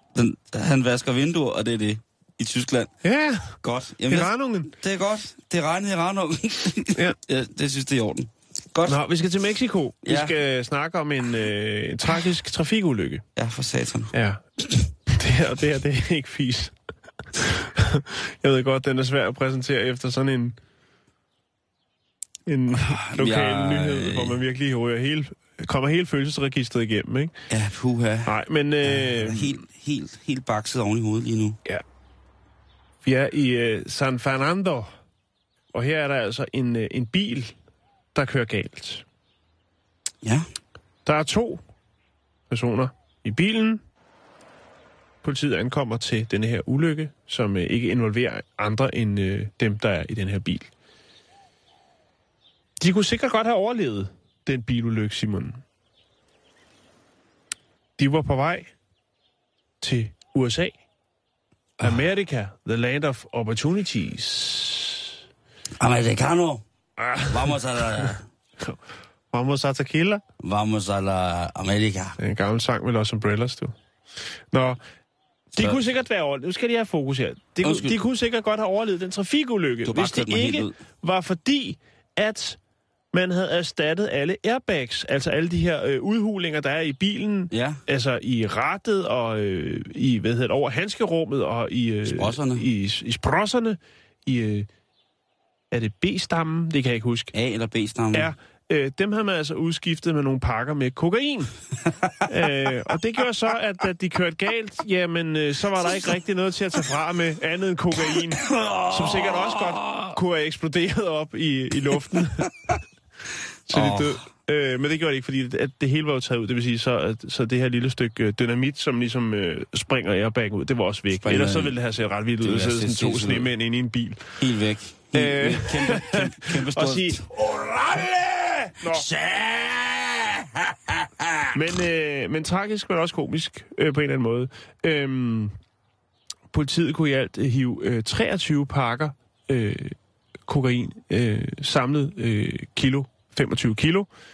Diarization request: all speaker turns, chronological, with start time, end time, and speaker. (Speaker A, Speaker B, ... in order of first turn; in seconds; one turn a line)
Speaker A: 0.1-2.9
Speaker B: 3.0-3.6
Speaker A: 3.6-9.0
Speaker B: 4.1-4.7
Speaker B: 8.9-13.2
Speaker A: 10.0-10.3
Speaker A: 13.4-14.8
Speaker B: 14.1-14.4
Speaker B: 15.1-16.7
Speaker B: 17.3-20.6
Speaker B: 22.5-27.4
Speaker A: 22.7-24.4
Speaker A: 27.5-31.6
Speaker B: 28.2-29.6
Speaker B: 33.0-34.9
Speaker B: 35.7-37.5
Speaker B: 38.1-39.0
Speaker B: 41.0-41.6
Speaker B: 42.5-43.8
Speaker B: 45.2-50.7
Speaker B: 52.8-55.6
Speaker B: 58.0-58.7
Speaker B: 59.8-60.8
Speaker B: 61.8-65.2
Speaker A: 65.8-66.6
Speaker B: 67.0-68.0
Speaker A: 67.3-68.2
Speaker B: 69.3-70.2
Speaker A: 70.4-72.2
Speaker B: 72.2-73.7
Speaker B: 74.5-74.8
Speaker B: 75.5-82.6
Speaker A: 77.6-78.0
Speaker A: 79.8-80.8
Speaker B: 83.1-94.7
Speaker A: 87.5-87.8
Speaker A: 92.1-92.7
Speaker B: 95.7-97.3
Speaker A: 97.3-98.3
Speaker B: 98.1-101.5
Speaker B: 102.3-112.7
Speaker A: 108.4-110.1
Speaker B: 113.7-124.4
Speaker A: 113.7-114.2
Speaker A: 121.1-121.7
Speaker A: 122.4-123.5
Speaker A: 124.4-127.4
Speaker B: 125.1-129.1
Speaker A: 128.8-131.5
Speaker B: 131.5-135.5
Speaker B: 136.5-144.1